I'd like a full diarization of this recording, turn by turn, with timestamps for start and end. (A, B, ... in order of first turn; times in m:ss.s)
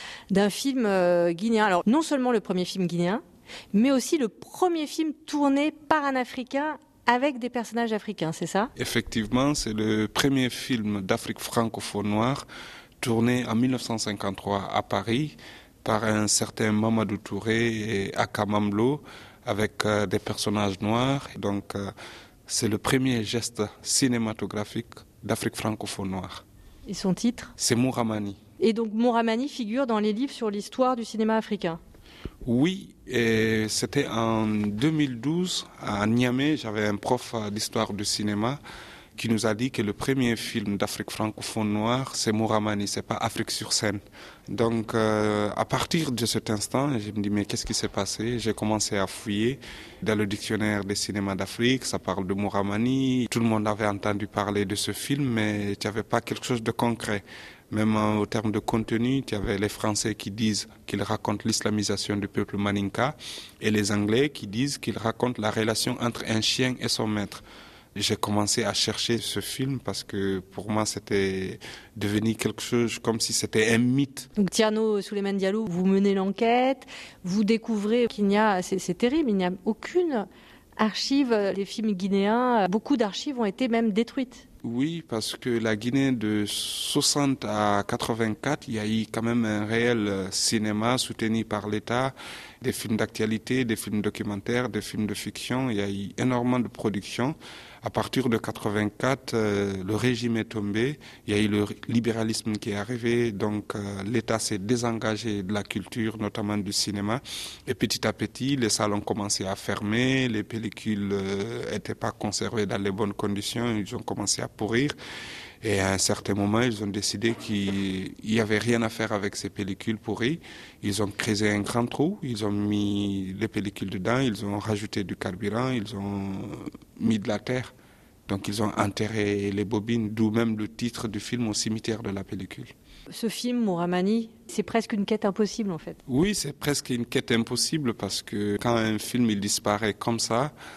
0:00.3-0:08.7 A
0:08.8-0:12.4 B
0:13.0-0:21.9 B
0:22.5-0:26.4 B
0:26.9-0:27.5 A
0:27.6-0:28.4 B
0:28.6-0:31.8 A
0:32.4-0:38.6 B
0:39.2-1:07.4 B
1:08.0-1:14.3 B
1:14.4-1:20.3 A
1:20.8-1:24.5 A
1:24.6-1:55.0 B
1:55.6-2:07.7 B
2:08.3-2:12.7 B
2:13.1-2:16.0 A
2:16.1-2:20.5 B